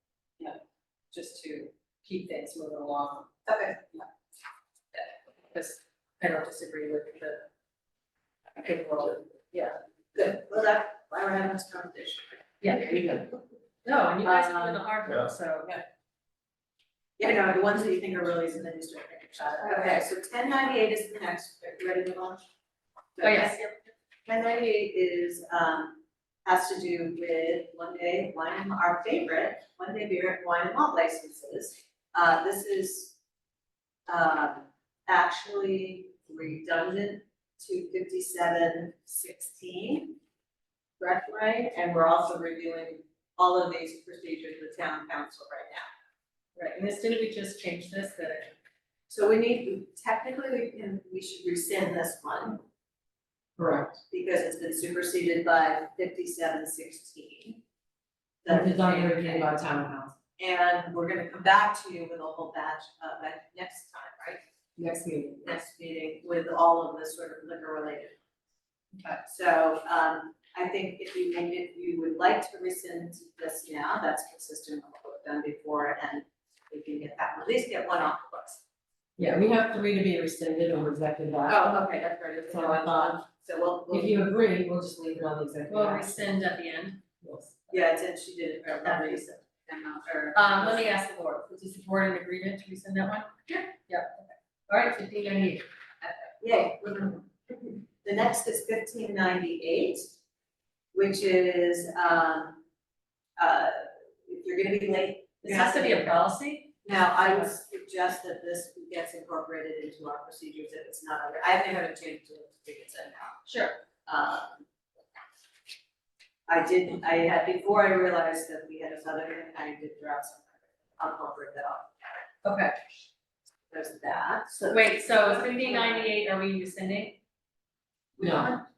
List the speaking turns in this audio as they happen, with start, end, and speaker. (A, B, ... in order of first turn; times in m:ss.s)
0:01.1-0:03.3 A
0:03.5-0:03.8 B
0:04.9-0:07.4 A
0:08.6-0:09.8 A
0:10.1-0:12.4 B
0:12.6-0:13.2 A
0:13.8-0:15.8 A
0:14.2-0:14.8 B
0:17.2-0:22.5 B
0:23.2-0:33.2 B
0:23.2-0:23.6 A
0:34.1-0:40.2 B
0:41.0-0:45.9 B
0:46.6-0:48.5 A
0:49.1-0:52.6 B
0:53.6-0:54.0 C
0:54.1-0:57.6 B
0:58.4-0:59.5 B
0:58.5-1:00.1 C
1:00.4-1:04.4 B
1:04.8-1:05.4 C
1:05.4-1:08.2 B
1:09.0-1:09.2 A
1:09.2-1:18.6 B
1:19.2-1:21.7 C
1:21.5-1:24.2 B
1:22.5-1:23.0 C
1:23.9-1:26.2 C
1:25.7-1:27.0 A
1:27.2-1:27.5 C
1:27.7-1:30.9 B
1:28.8-1:29.2 A
1:30.3-1:35.6 A
1:36.0-1:40.1 B
1:40.9-1:42.6 B
1:43.4-1:46.1 B
1:45.4-1:47.5 A
1:46.8-1:53.5 B
1:53.4-1:53.8 A
1:54.0-1:54.6 B
1:56.5-2:02.3 B
2:02.4-2:02.7 A
2:03.7-2:06.1 B
2:04.7-2:07.2 A
2:08.2-2:08.5 C
2:08.2-2:08.6 B